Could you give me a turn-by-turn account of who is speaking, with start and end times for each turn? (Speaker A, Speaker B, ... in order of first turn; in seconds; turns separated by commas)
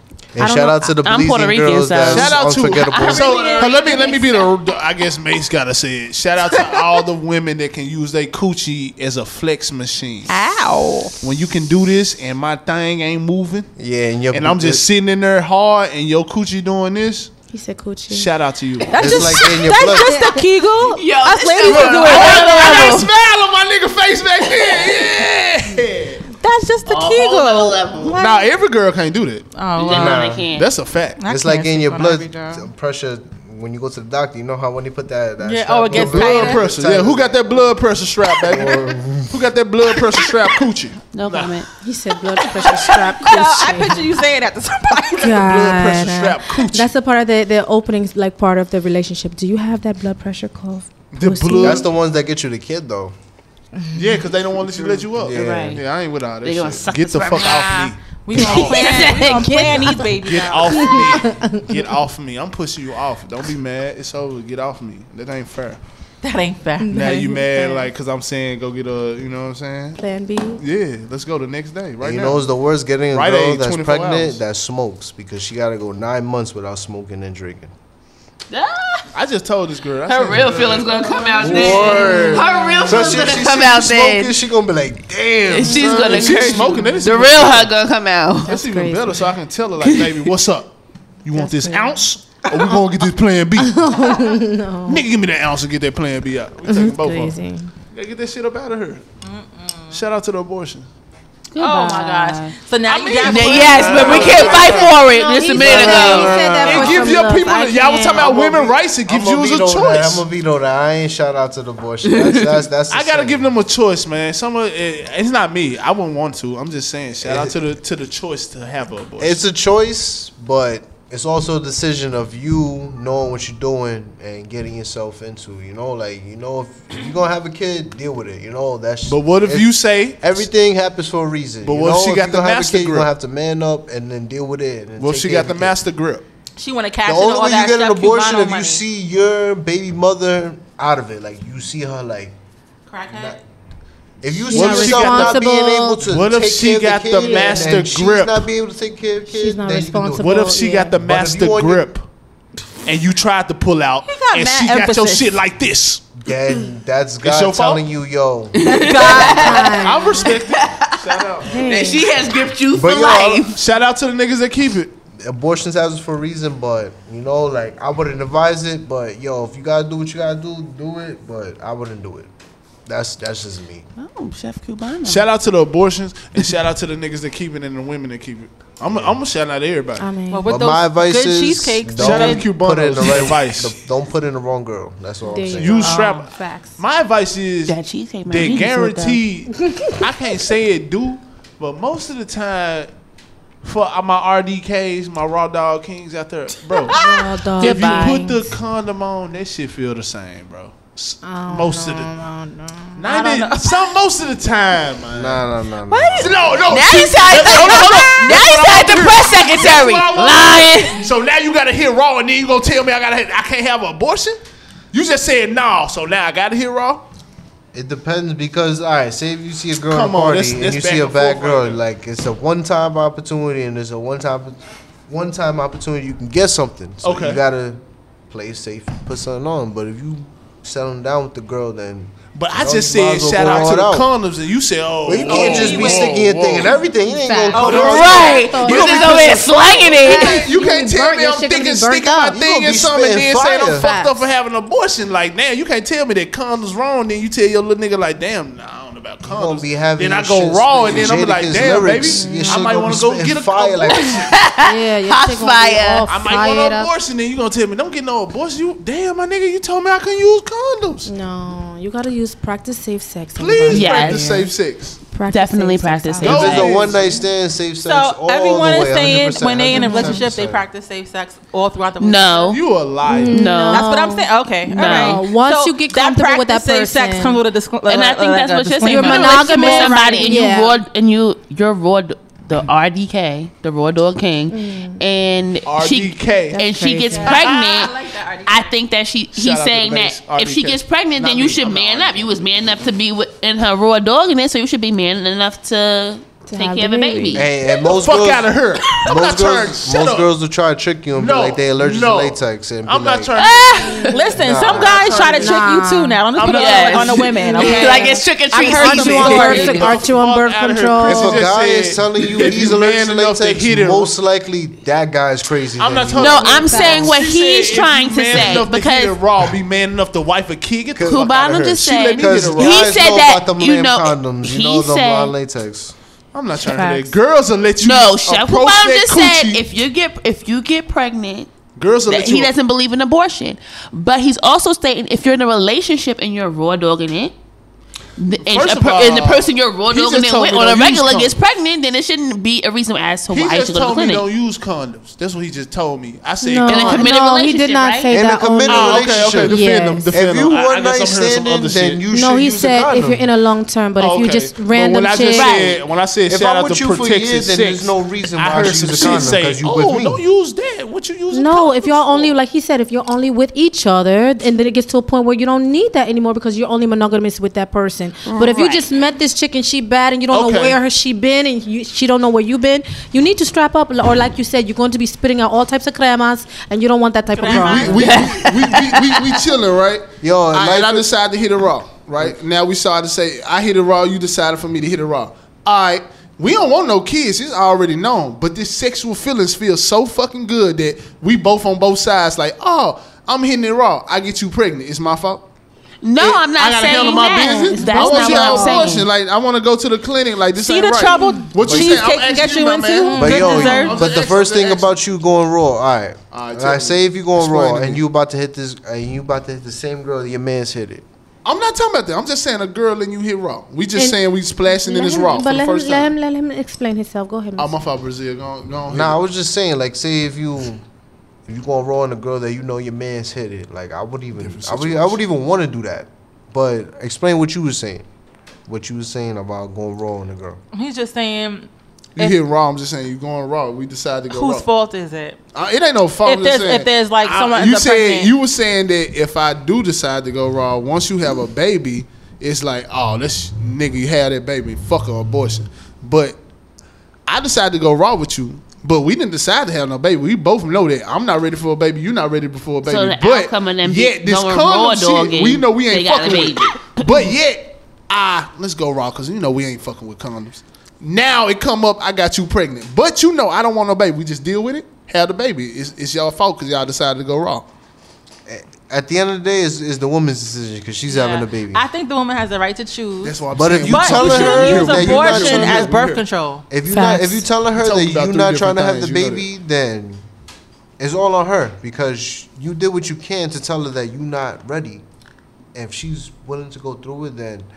Speaker A: 0.3-3.3, Speaker B: 0.4-0.9, Speaker C: 1.1-4.5, Speaker D: 2.0-10.4, Speaker E: 3.4-4.3, Speaker E: 10.3-11.2, Speaker D: 11.2-13.7, Speaker A: 13.8-14.8, Speaker D: 14.3-17.3, Speaker B: 17.5-18.3, Speaker D: 18.1-18.9, Speaker E: 18.9-23.0, Speaker A: 19.0-20.2, Speaker B: 20.1-20.3, Speaker C: 20.9-23.1, Speaker D: 21.7-26.2, Speaker C: 24.4-25.1, Speaker E: 26.4-28.5, Speaker C: 26.9-28.2, Speaker D: 28.2-31.2, Speaker E: 29.6-30.2, Speaker C: 29.8-30.7, Speaker A: 29.9-30.4, Speaker E: 31.2-32.7, Speaker A: 31.2-37.7, Speaker E: 35.4-36.6, Speaker D: 36.0-41.6, Speaker A: 38.4-39.4, Speaker C: 41.1-41.7, Speaker B: 41.8-44.2, Speaker E: 42.4-45.5, Speaker B: 45.2-51.9, Speaker D: 45.3-46.9, Speaker E: 46.0-46.4, Speaker D: 51.1-51.9, Speaker A: 51.6-53.1, Speaker B: 53.9-54.4, Speaker D: 53.9-58.8, Speaker A: 55.0-55.8, Speaker C: 55.4-55.8, Speaker C: 56.4-57.9, Speaker E: 57.3-61.1, Speaker B: 58.4-60.1, Speaker C: 58.7-59.3, Speaker D: 60.1-65.8, Speaker B: 60.7-61.6, Speaker E: 66.2-67.3, Speaker B: 66.8-67.9, Speaker D: 66.9-70.0, Speaker B: 70.0-70.6, Speaker D: 70.6-72.5, Speaker A: 72.0-77.7, Speaker D: 73.1-74.4, Speaker C: 78.5-79.1, Speaker D: 79.1-82.9, Speaker C: 80.1-84.3, Speaker A: 81.5-82.2, Speaker B: 81.7-83.3, Speaker A: 82.9-86.1, Speaker C: 85.5-88.5, Speaker B: 85.6-87.0, Speaker D: 85.6-87.7, Speaker B: 88.5-89.3, Speaker D: 88.5-90.7, Speaker C: 89.8-90.1, Speaker D: 91.2-93.7, Speaker B: 91.3-92.0, Speaker B: 93.6-95.0, Speaker D: 94.9-97.4, Speaker B: 96.7-97.7, Speaker D: 97.9-99.0, Speaker E: 99.2-100.0, Speaker D: 99.9-100.9, Speaker C: 101.5-102.6, Speaker E: 101.6-104.8, Speaker D: 102.9-110.2, Speaker C: 103.2-106.9, Speaker B: 103.8-108.5, Speaker A: 108.1-113.5, Speaker D: 112.9-119.4, Speaker A: 117.2-117.6, Speaker A: 119.2-135.8, Speaker D: 129.1-130.4, Speaker D: 131.6-133.1, Speaker D: 135.0-136.2, Speaker E: 136.6-138.8, Speaker A: 137.1-142.3, Speaker E: 142.9-143.4, Speaker A: 143.1-143.4, Speaker A: 144.2-150.4, Speaker B: 144.5-146.1, Speaker D: 144.5-145.5, Speaker D: 146.1-148.4, Speaker B: 147.1-147.8, Speaker B: 149.3-151.0, Speaker D: 150.2-152.0, Speaker A: 151.0-151.9, Speaker D: 152.9-156.1, Speaker E: 154.1-155.4, Speaker A: 156.2-158.5, Speaker D: 157.2-157.8, Speaker C: 158.6-163.5, Speaker B: 158.7-160.4, Speaker E: 158.7-159.9, Speaker D: 159.8-161.5, Speaker B: 161.5-162.1, Speaker A: 162.7-163.4, Speaker D: 163.5-164.9, Speaker A: 165.2-172.3, Speaker A: 172.9-173.8, Speaker C: 174.0-175.2, Speaker D: 175.1-180.1, Speaker A: 178.9-179.1, Speaker B: 180.0-180.5, Speaker E: 180.3-182.5, Speaker A: 180.5-185.9, Speaker D: 181.9-183.7, Speaker B: 185.2-186.8, Speaker D: 185.6-192.9, Speaker C: 187.7-189.2, Speaker B: 189.5-190.1, Speaker D: 193.6-197.0, Speaker E: 196.7-197.1, Speaker B: 196.9-198.5, Speaker C: 197.6-198.2, Speaker D: 197.6-202.1, Speaker B: 201.2-203.6, Speaker D: 203.0-205.4, Speaker A: 205.1-206.5, Speaker E: 205.9-206.2, Speaker D: 206.2-214.4, Speaker C: 206.7-211.0, Speaker E: 206.9-208.2, Speaker D: 214.9-217.0, Speaker A: 217.7-224.6, Speaker D: 219.8-221.8, Speaker A: 225.1-234.1, Speaker D: 227.0-227.4, Speaker D: 232.3-236.8, Speaker A: 235.0-238.3, Speaker E: 235.2-236.1, Speaker B: 235.4-235.9, Speaker B: 236.8-242.5, Speaker D: 237.6-254.0, Speaker C: 237.9-240.4, Speaker A: 242.3-243.9, Speaker B: 243.6-244.3, Speaker A: 249.2-254.1, Speaker B: 251.7-252.9, Speaker C: 254.3-256.1, Speaker B: 254.6-256.9, Speaker D: 256.1-261.1, Speaker B: 261.1-264.5, Speaker D: 263.3-265.0, Speaker C: 263.7-264.4, Speaker B: 265.1-266.8, Speaker C: 265.3-266.7, Speaker D: 266.2-267.2, Speaker A: 266.3-270.6, Speaker E: 267.8-272.6, Speaker B: 269.7-270.3, Speaker C: 272.0-272.6, Speaker D: 272.5-273.6, Speaker B: 273.0-277.4, Speaker C: 273.2-273.9, Speaker E: 273.7-280.6, Speaker C: 274.7-275.3, Speaker C: 277.9-297.4, Speaker B: 278.8-280.8, Speaker B: 284.5-285.0, Speaker D: 285.6-286.6, Speaker B: 286.5-287.5, Speaker E: 287.1-288.8, Speaker D: 289.3-292.3, Speaker B: 296.5-297.5, Speaker A: 297.4-298.5, Speaker D: 297.9-300.3, Speaker A: 299.1-303.3, Speaker D: 301.1-304.0, Speaker C: 303.4-304.2, Speaker B: 303.9-304.4, Speaker E: 304.1-309.9, Speaker A: 304.4-305.2, Speaker D: 304.6-305.6, Speaker B: 305.2-311.5, Speaker D: 306.4-308.0, Speaker C: 306.5-309.7, Speaker D: 308.9-314.1, Speaker A: 311.0-316.5, Speaker D: 315.8-323.0, Speaker C: 316.2-319.2, Speaker B: 316.4-317.2, Speaker A: 321.0-321.2, Speaker C: 321.1-325.3, Speaker A: 322.2-325.9, Speaker D: 326.3-329.6, Speaker B: 326.6-327.1, Speaker C: 327.8-331.5, Speaker D: 331.8-332.5, Speaker C: 332.1-337.4, Speaker C: 338.2-344.3, Speaker D: 338.4-341.4, Speaker D: 343.3-347.2, Speaker B: 346.4-350.1, Speaker C: 346.7-348.1, Speaker A: 348.1-353.3, Speaker D: 348.7-352.1, Speaker B: 352.1-355.7, Speaker D: 354.0-362.3, Speaker C: 355.3-355.8, Speaker A: 356.3-360.2, Speaker B: 361.3-378.2, Speaker C: 368.3-368.8, Speaker D: 370.3-370.8, Speaker E: 377.3-378.2, Speaker D: 377.4-395.4, Speaker C: 378.0-379.4, Speaker A: 380.2-381.1, Speaker C: 396.0-399.1, Speaker D: 396.2-404.9, Speaker B: 397.1-399.0, Speaker E: 400.6-404.0, Speaker A: 401.7-402.0, Speaker B: 403.1-403.8, Speaker A: 403.2-411.1, Speaker D: 406.3-408.0, Speaker D: 411.4-416.1, Speaker B: 414.7-417.8, Speaker D: 417.6-419.2, Speaker A: 418.9-420.8, Speaker A: 421.5-428.1, Speaker D: 424.4-425.2, Speaker A: 428.7-430.6, Speaker E: 430.7-432.4, Speaker D: 432.2-434.7, Speaker E: 434.3-435.4, Speaker D: 435.5-446.4, Speaker E: 436.2-438.3, Speaker D: 447.3-467.7, Speaker C: 452.9-457.1, Speaker A: 468.5-471.9, Speaker E: 471.1-476.6, Speaker D: 473.2-476.2, Speaker A: 473.5-476.0, Speaker A: 476.7-480.2, Speaker B: 476.8-477.5, Speaker D: 477.8-479.5, Speaker A: 481.0-485.0, Speaker A: 485.7-487.7